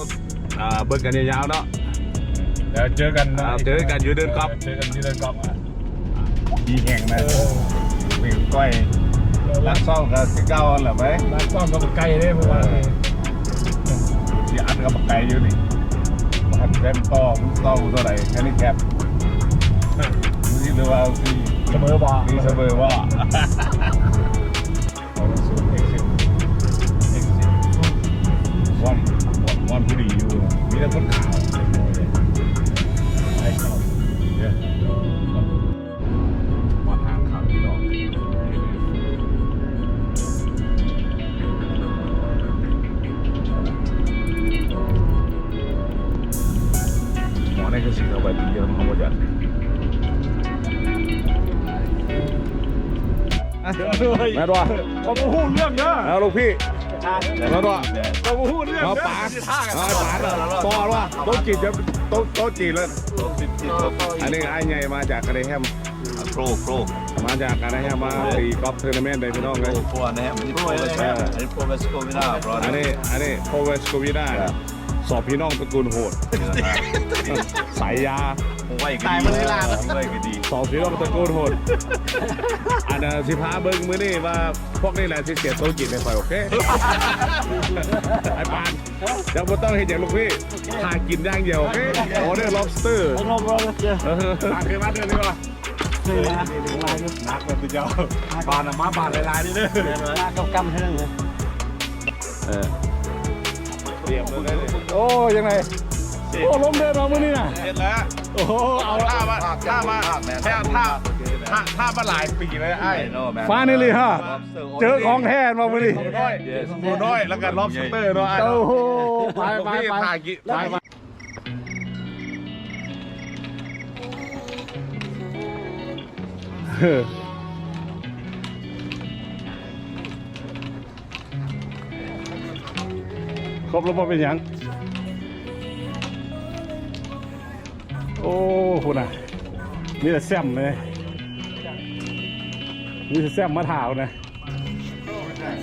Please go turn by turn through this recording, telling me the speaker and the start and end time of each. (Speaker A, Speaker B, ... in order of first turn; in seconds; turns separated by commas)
Speaker A: 0.6-1.7, Speaker B: 2.5-5.6, Speaker A: 3.3-4.6, Speaker A: 6.6-7.5, Speaker B: 7.2-7.7, Speaker A: 8.0-8.9, Speaker B: 9.4-9.8, Speaker A: 9.6-11.3, Speaker B: 11.3-12.9, Speaker A: 12.3-12.9, Speaker A: 14.3-15.6, Speaker A: 16.5-18.8, Speaker A: 20.4-23.9, Speaker B: 21.7-22.5, Speaker B: 25.2-26.1, Speaker A: 28.8-32.1, Speaker B: 33.4-33.8, Speaker A: 36.8-37.9, Speaker A: 47.5-49.2, Speaker A: 53.7-55.0, Speaker B: 53.8-56.1, Speaker C: 55.0-55.4, Speaker A: 56.0-56.6, Speaker C: 57.0-57.6, Speaker D: 57.2-58.4, Speaker A: 57.5-57.9, Speaker B: 58.4-59.6, Speaker A: 58.8-63.0, Speaker D: 59.5-61.8, Speaker D: 63.1-64.4, Speaker C: 63.1-64.5, Speaker A: 64.2-65.7, Speaker D: 66.1-67.0, Speaker A: 67.2-69.8, Speaker D: 67.8-68.5, Speaker D: 69.3-72.8, Speaker C: 70.6-70.9, Speaker A: 70.9-71.4, Speaker C: 72.2-73.0, Speaker A: 72.5-76.3, Speaker D: 74.3-74.6, Speaker D: 76.3-78.1, Speaker A: 77.3-78.4, Speaker D: 78.6-80.5, Speaker C: 79.0-79.9, Speaker A: 80.5-81.6, Speaker A: 82.8-93.3, Speaker C: 87.7-88.0, Speaker C: 90.5-90.8, Speaker C: 91.6-94.0, Speaker D: 92.0-92.5, Speaker A: 94.0-94.7, Speaker B: 94.5-95.4, Speaker C: 96.0-97.3, Speaker D: 96.1-97.1, Speaker B: 96.2-100.1, Speaker C: 98.2-99.3, Speaker C: 99.8-101.1, Speaker A: 102.5-102.7, Speaker A: 104.0-105.5, Speaker D: 104.1-105.0, Speaker B: 105.2-105.6, Speaker D: 106.3-111.7, Speaker A: 106.4-107.4, Speaker B: 106.9-107.6, Speaker B: 108.3-108.9, Speaker A: 108.7-120.8, Speaker D: 112.8-118.7, Speaker B: 113.5-114.2, Speaker C: 115.8-117.2, Speaker B: 118.5-119.9, Speaker C: 118.8-119.3, Speaker A: 126.7-127.1, Speaker B: 133.7-134.4, Speaker B: 138.2-139.1, Speaker B: 140.0-140.8, Speaker B: 143.1-144.1